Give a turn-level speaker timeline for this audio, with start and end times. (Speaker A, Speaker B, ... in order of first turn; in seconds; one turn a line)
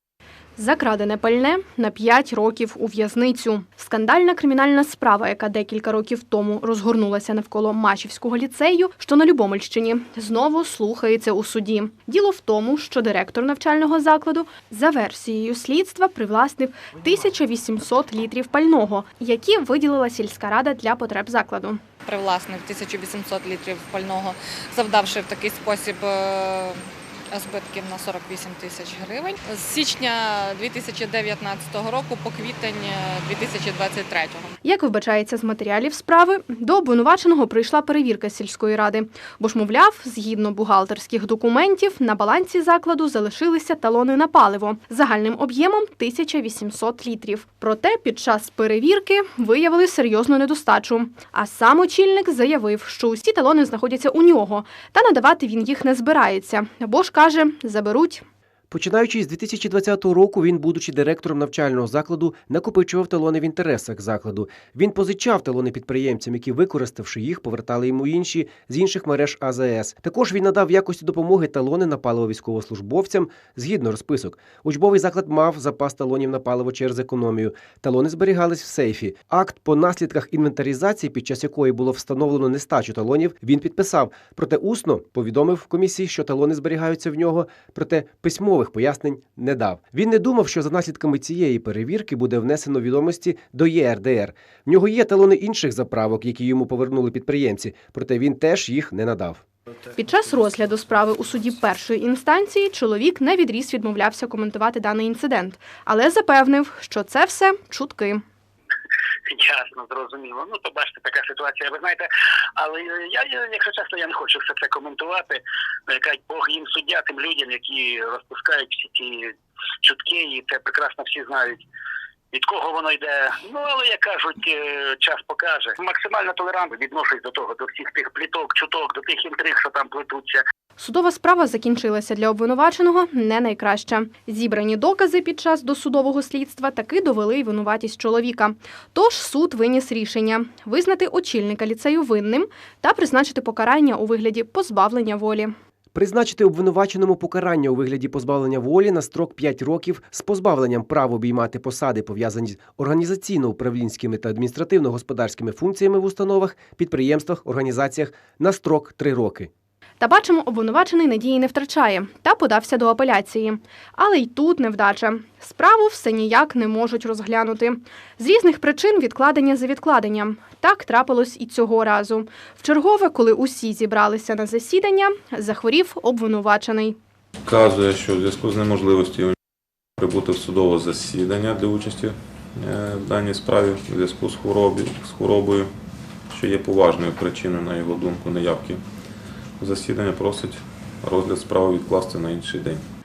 Speaker A: 0.6-21.8
Speaker B: 22.1-34.5
Speaker A: 34.6-58.2
Speaker C: 58.7-99.4
Speaker A: 100.0-108.2
Speaker D: 109.3-121.6
Speaker D: 122.3-130.4
Speaker A: 130.8-145.5
Speaker C: 145.9-159.5
Speaker A: 160.0-177.0
Speaker E: 177.4-179.3
Speaker E: 180.0-185.7
Speaker E: 186.3-188.8
Speaker E: 189.6-192.8